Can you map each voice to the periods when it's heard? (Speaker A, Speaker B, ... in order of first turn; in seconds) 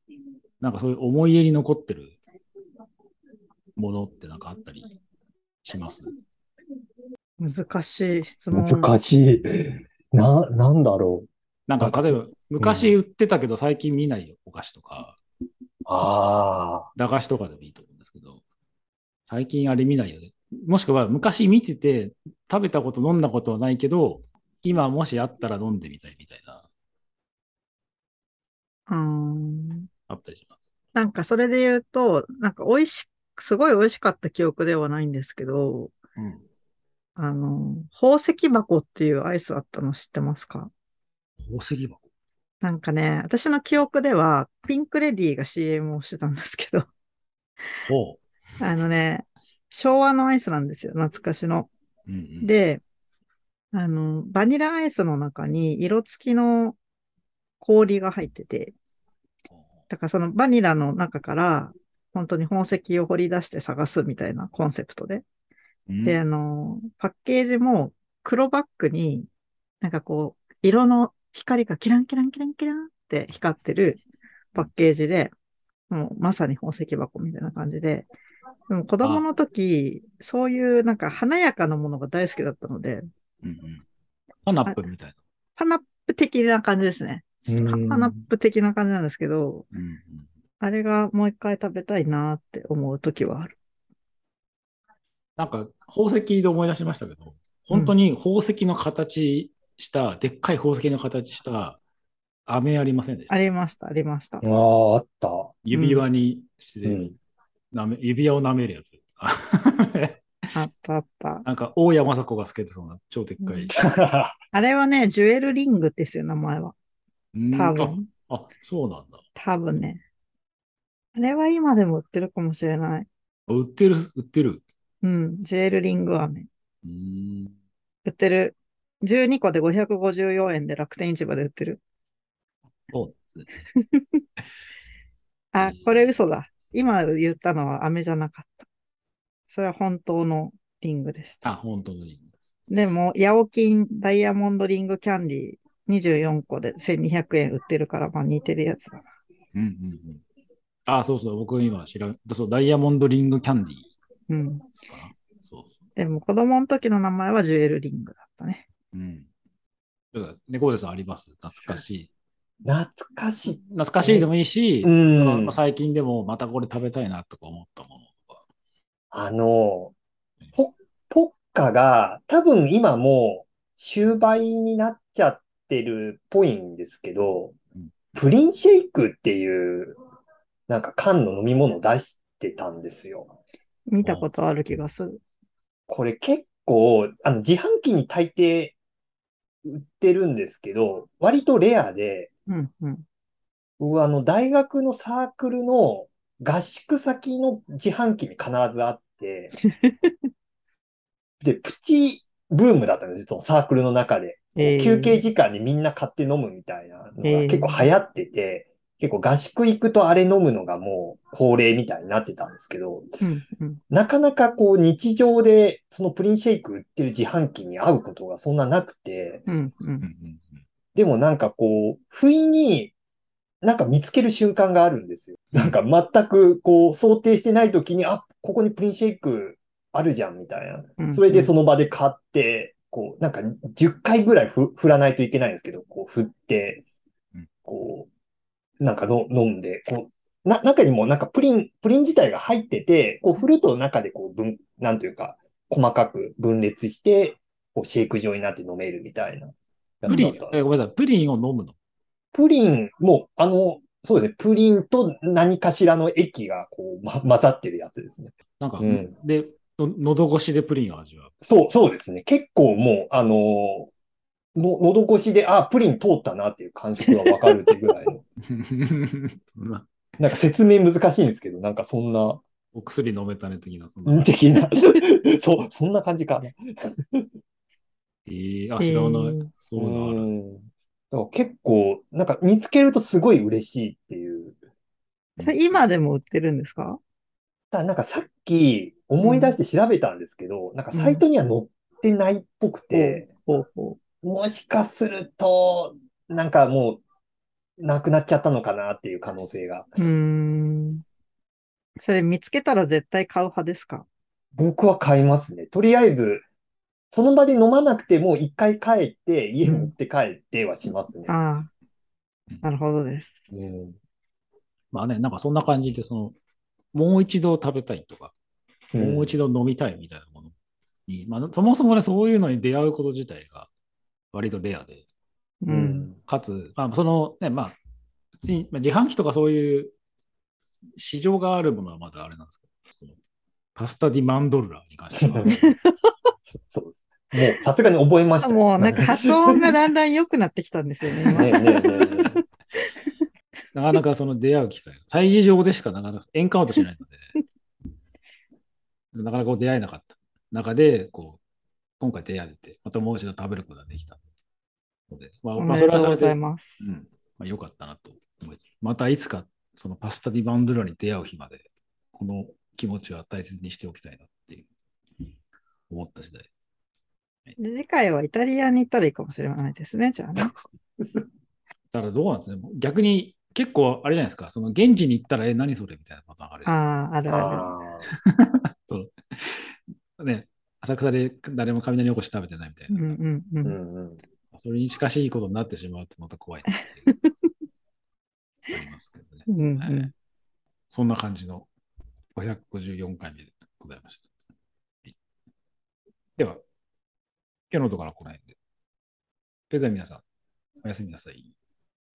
Speaker A: 0.6-2.2, 3.8-4.9, 5.6-6.1, 11.7-15.2, 16.9-18.4, 19.3-26.6, 30.1-30.5, 36.2-36.4, 41.4-42.0, 47.8-48.2, 52.1-52.5, 65.9-66.2, 83.4-83.8, 84.4-85.2, 89.7-90.3, 95.4-101.8, 102.5-103.3, 105.6-107.2, 107.7-110.2, 111.4-113.8, 117.3-119.2, 123.5-124.6, 126.8-127.5, 132.9-133.5, 135.6-136.1, 141.4-142.3, 149.5-150.2, 150.9-153.9, 154.9-155.7, 158.9-159.3, 160.1-162.1, 163.6-168.4, 184.0-184.3, 220.0-220.6, 225.5-225.8, 250.1-251.7, 258.6-261.3, 268.5-269.9, 272.7-274.3, 278.2-280.3, 285.4-285.8, 314.9-316.3, 316.9-318.3, 318.9-320.5, 321.1-323.7, 324.3-325.0, 326.2-327.8, 328.4-329.9, 331.0-333.1, 333.8-335.7, 343.7-347.2, 349.1-351.4, 352.0-354.2, 355.1-364.7, 365.9-366.5, 371.9-376.7, 378.2-383.2, 384.5-387.1, 388.7-390.1, 390.9-391.7, 392.3-394.3, 397.7-398.5, 399.7-400.2, 400.8-401.5
Speaker B: 7.4-8.9, 28.9-29.9, 30.9-35.9, 37.2-40.7, 42.6-46.9, 48.6-51.7, 52.4-52.8, 53.7-56.8, 57.6-58.7, 59.9-65.2, 66.0-69.3, 69.8-74.0, 74.5-75.3, 75.9-78.1, 78.7-83.1, 85.6-89.7, 90.6-93.5, 103.3-104.4, 105.7-106.0, 110.5-111.4, 113.4-113.7, 114.5-116.7, 117.5-118.1, 119.3-120.0, 121.1-123.1, 125.0-126.5, 128.0-131.8, 133.8-134.2, 135.5-138.7, 139.5-141.4, 142.7-149.1, 154.3-154.7, 155.9-158.7, 183.9-185.2, 192.5-193.0, 199.8-200.1, 204.6-205.2, 207.2-207.9, 213.2-213.8, 219.5-220.1, 231.0-231.5, 250.1-250.3, 278.8-279.5, 285.4-287.0, 289.2-289.5, 290.9-291.2, 292.9-294.0, 300.0-301.0, 302.0-304.1, 309.6-309.9, 311.3-311.7, 312.6-313.3, 325.6-326.1, 335.4-336.1, 338.4-342.4, 355.6-356.9, 367.6-370.5, 376.6-377.7, 382.9-383.8, 389.5-390.1
Speaker C: 8.5-11.3, 11.8-12.9, 15.8-16.9, 87.5-88.2, 104.4-105.5, 106.8-107.1, 113.7-114.3, 162.6-164.3, 164.8-165.6, 169.1-169.9, 170.5-177.6, 178.1-179.9, 180.7-183.3, 185.9-188.7, 189.6-192.3, 193.8-199.5, 201.4-213.1, 213.9-219.4, 220.9-222.9, 223.6-236.8, 237.7-238.1, 238.8-250.6, 252.3-259.1, 261.4-263.9, 264.5-268.2, 270.2-272.4, 274.1-277.3, 279.8-284.6, 287.7-293.3, 294.2-297.0, 297.8-300.0, 304.6-306.4, 307.1-311.3, 313.5-313.9, 318.9-319.3, 325.7-326.2, 335.2-335.6, 336.5-339.8, 341.2-342.4, 377.3-378.1, 383.6-384.2